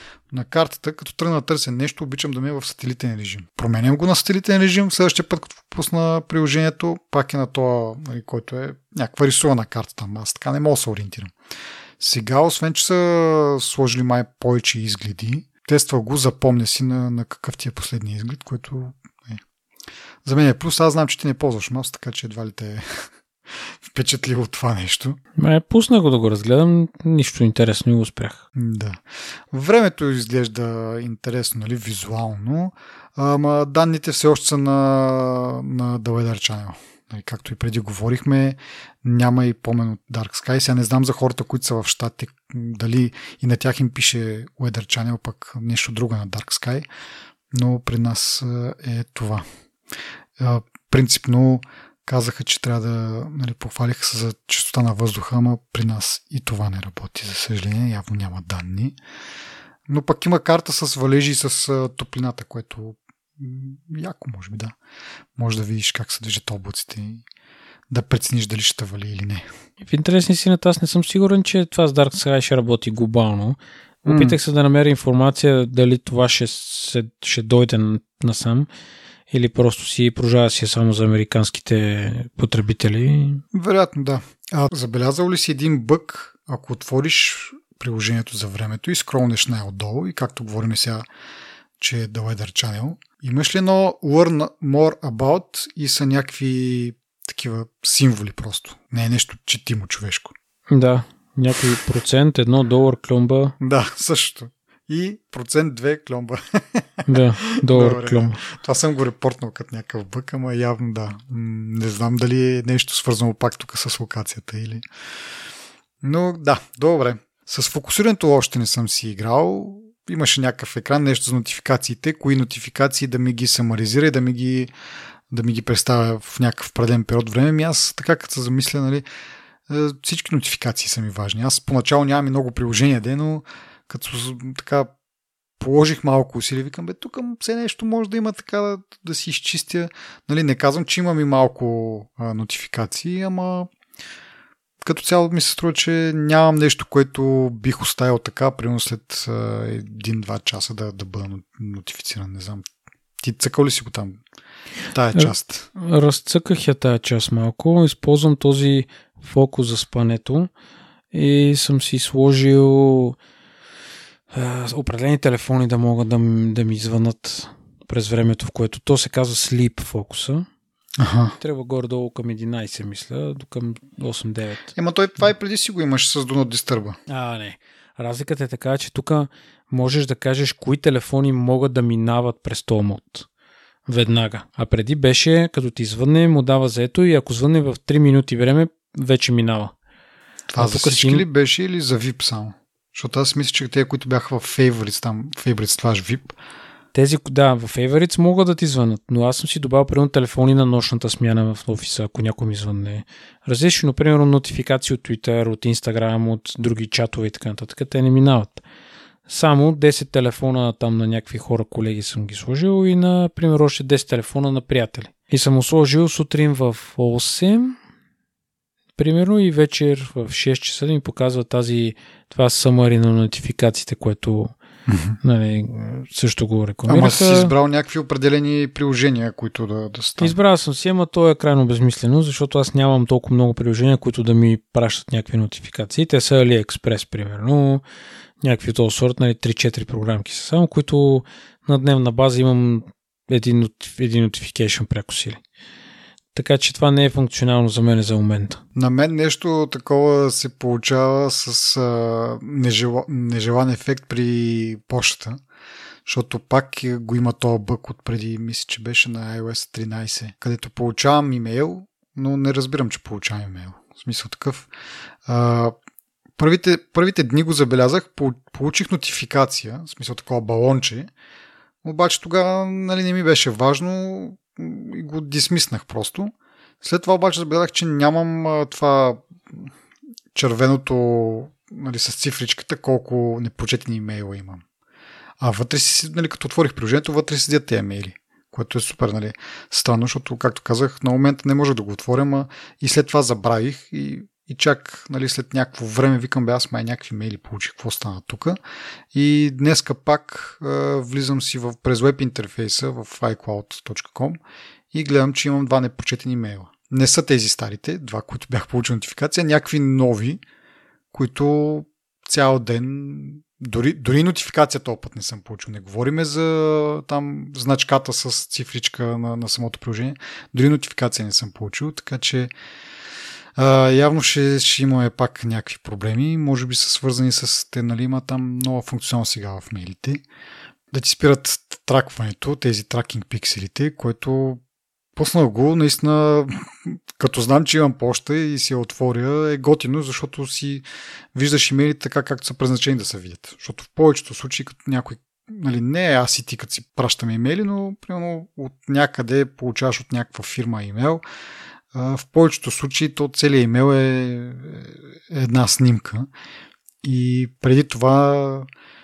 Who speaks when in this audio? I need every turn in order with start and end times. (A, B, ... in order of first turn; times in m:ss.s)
0:00.3-0:11.3 A
0:12.0-0:19.4 A
0:20.2-0:23.1 A
0:23.6-0:25.2 A
0:25.4-0:28.4 B
0:28.6-0:46.8 A
0:47.5-0:49.4 A
0:50.4-0:59.0 A
0:59.9-1:04.8 A
1:05.4-1:07.2 A
1:07.9-1:09.5 A
1:09.8-1:18.7 B
1:14.1-1:14.4 A
1:19.3-1:23.4 B
1:23.5-1:31.1 A
1:31.8-1:40.3 A
1:40.7-1:43.6 B
1:43.6-1:54.8 A
1:47.1-1:48.4 B
1:56.0-2:04.7 A
2:05.3-2:09.0 A
2:09.7-2:14.9 A
2:15.6-2:23.7 A
2:24.8-2:32.7 A
2:33.2-2:34.2 A
2:34.9-2:35.7 A
2:35.2-2:40.5 B
2:41.1-2:43.2 B
2:44.3-2:50.5 B
2:51.0-2:51.4 A
2:51.4-2:54.7 B
2:54.8-2:57.0 A
2:57.1-3:03.3 B
3:03.9-3:09.7 B
3:10.5-3:16.4 A
3:10.6-3:11.2 B
3:16.9-3:28.6 B
3:29.3-3:37.8 B
3:39.0-3:44.5 B
3:44.9-3:45.2 A
3:45.2-3:47.5 B
3:46.9-3:50.4 A
3:50.2-3:57.8 B
3:58.4-4:05.4 B
4:06.4-4:08.6 B
4:08.8-4:15.4 A
4:16.1-4:24.7 A
4:25.3-4:25.8 A
4:26.4-4:31.1 A
4:31.8-4:39.7 A
4:40.3-4:44.6 A
4:45.4-4:58.6 A
4:59.1-5:04.4 A
5:04.9-5:10.4 A
5:11.1-5:22.5 A
5:23.6-5:30.2 A
5:30.9-5:34.6 A
5:35.2-5:40.8 A
5:41.4-5:51.2 A
5:51.9-5:56.3 A
5:57.0-5:58.7 A